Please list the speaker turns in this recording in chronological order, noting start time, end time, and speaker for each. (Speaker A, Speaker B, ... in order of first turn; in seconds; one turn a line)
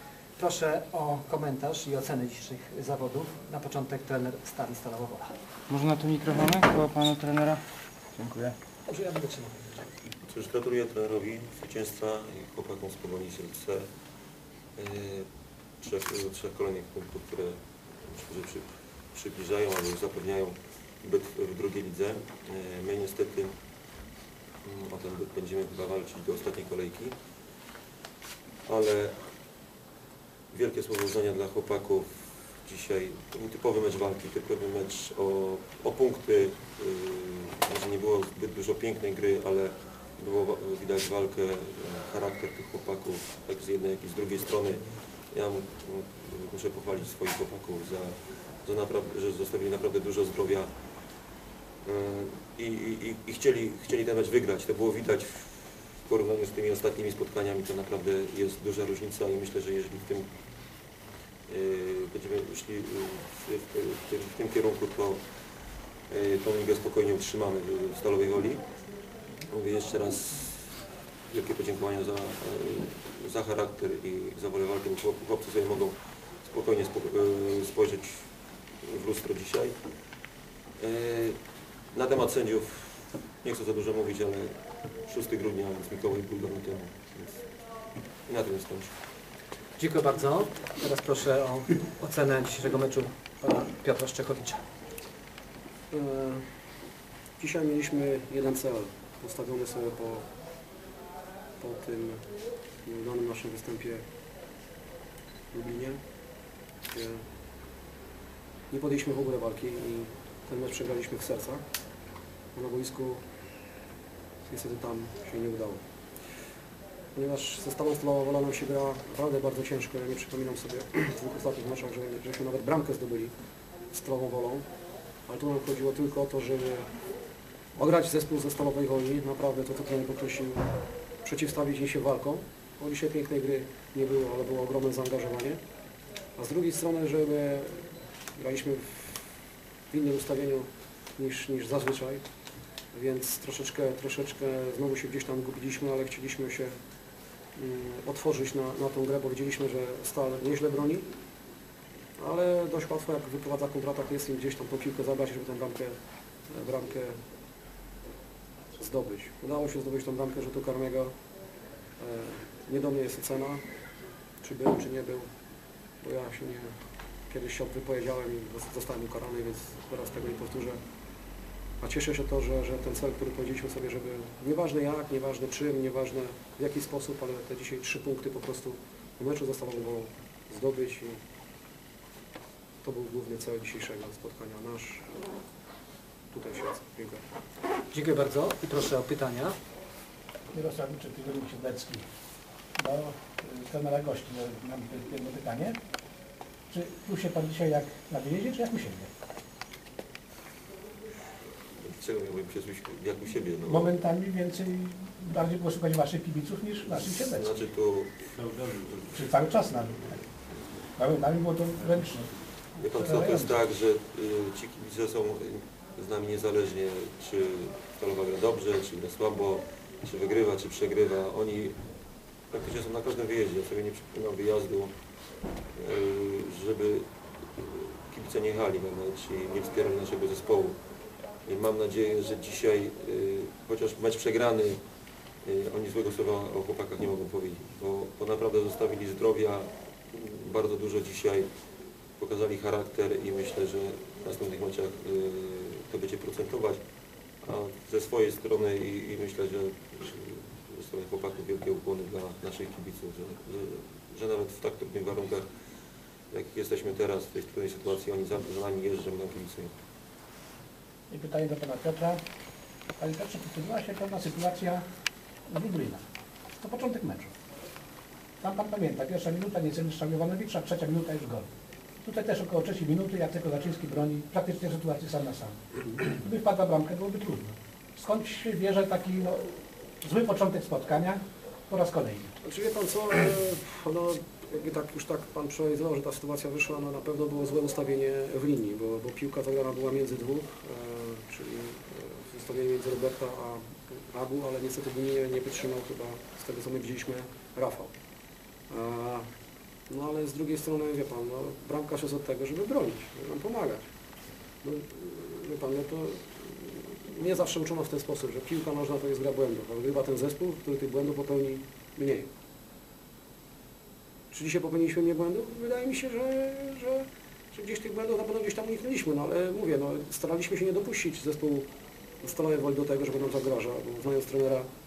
Speaker A: 0.4-5.3
Speaker B: 5.7-7.6
Speaker B: 8.2-8.5
Speaker A: 8.9-9.8
Speaker C: 10.2-13.8
Speaker C: 14.8-15.3
Speaker C: 15.8-23.5
Speaker C: 24.6-27.1
Speaker C: 28.6-29.2
Speaker C: 30.5-50.7
Speaker C: 51.8-60.3
Speaker C: 61.5-65.2
Speaker C: 66.1-68.6
Speaker C: 69.5-70.7
Speaker C: 71.3-78.2
Speaker C: 78.8-79.8
Speaker C: 80.8-81.4
Speaker C: 81.9-87.4
Speaker C: 88.3-88.9
Speaker A: 89.8-94.6
Speaker D: 95.9-96.5
Speaker D: 97.4-100.3
Speaker D: 101.6-102.2
Speaker D: 102.8-104.0
Speaker D: 105.5-106.0
Speaker D: 106.9-107.2
Speaker D: 108.7-111.6
Speaker D: 112.5-113.2
Speaker D: 114.5-115.8
Speaker D: 117.1-123.3
Speaker D: 123.9-124.7
Speaker D: 125.3-126.9
Speaker D: 127.8-130.7
Speaker D: 131.2-135.6
Speaker D: 136.3-139.3
Speaker D: 139.9-142.2
Speaker D: 142.9-146.7
Speaker D: 147.5-151.1
Speaker D: 152.2-156.0
Speaker D: 156.5-157.2
Speaker D: 158.7-161.1
Speaker D: 162.0-163.6
Speaker D: 164.4-165.3
Speaker D: 166.0-166.7
Speaker D: 167.3-170.8
Speaker D: 171.8-181.2
Speaker D: 182.8-185.2
Speaker D: 186.3-187.2
Speaker A: 187.9-189.6
Speaker E: 190.5-192.0
Speaker E: 192.8-195.8
Speaker E: 196.7-199.1
Speaker C: 201.8-203.9
Speaker E: 203.6-207.6
Speaker C: 206.9-208.7
Speaker E: 209.0-210.2
Speaker E: 210.9-213.6
Speaker C: 212.8-221.8
Speaker C: 222.5-224.9
Speaker C: 225.7-230.8
Speaker C: 231.4-234.8
Speaker C: 235.4-241.5
Speaker C: 242.2-246.8
Speaker C: 247.4-255.4
Speaker C: 256.3-259.7
Speaker E: 261.1-262.2
Speaker E: 263.0-264.8
Speaker E: 265.5-266.0
Speaker E: 266.6-267.3
Speaker E: 268.4-271.4
Speaker E: 272.0-279.5
Speaker E: 280.0-282.3
Speaker D: 282.4-297.9
Speaker D: 298.7-299.3
Speaker D: 299.9-303.9
Speaker D: 304.6-312.3
Speaker D: 314.3-321.7
Speaker D: 322.2-324.7